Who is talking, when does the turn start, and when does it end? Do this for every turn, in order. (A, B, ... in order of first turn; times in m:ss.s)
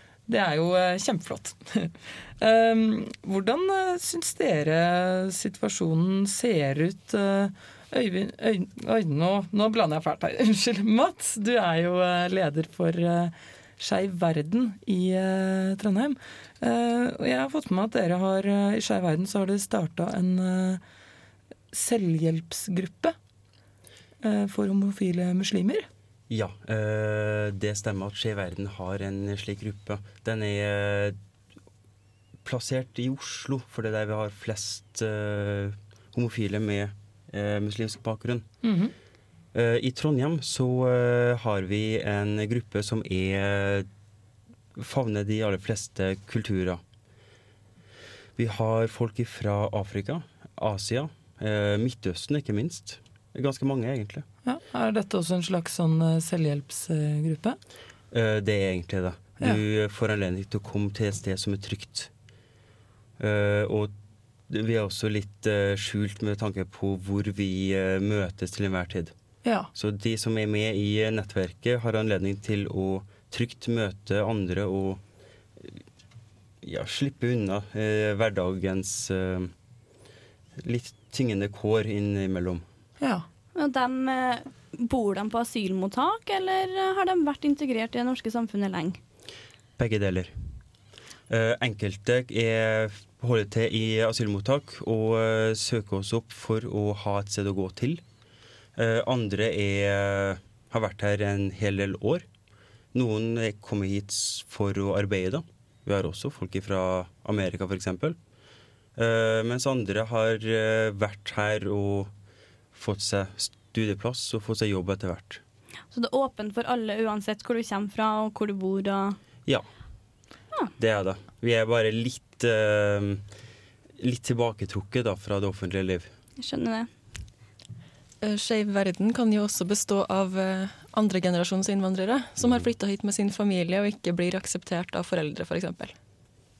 0:00.3-0:20.8 A
0:21.7-0:23.1 A
0:24.2-0:25.9 A
0:26.3-0:31.2 B
0:32.4-0:38.4 B
0:38.6-0:38.9 A
0:39.5-0:43.9 B
0:44.8-0:46.8 B
0:48.4-0:54.2 B
0:54.4-0:57.6 A
0:58.1-1:02.1 B
1:03.2-1:03.9 B
1:04.5-1:09.1 B
1:09.4-1:09.7 A
1:09.7-1:15.0 B
1:16.6-1:19.5 B
1:20.6-1:22.6 B
1:23.0-1:23.2 A
1:23.5-1:29.0 C
1:29.8-1:30.3 B
1:31.3-1:38.0 B
1:38.8-1:42.2 B
1:42.9-1:48.2 B
1:49.0-1:52.1 B
1:52.7-1:55.4 B
1:55.9-1:59.2 C
2:00.8-2:03.2 B
2:04.0-2:06.1 B
2:06.4-2:06.9 C
2:08.2-2:15.9 D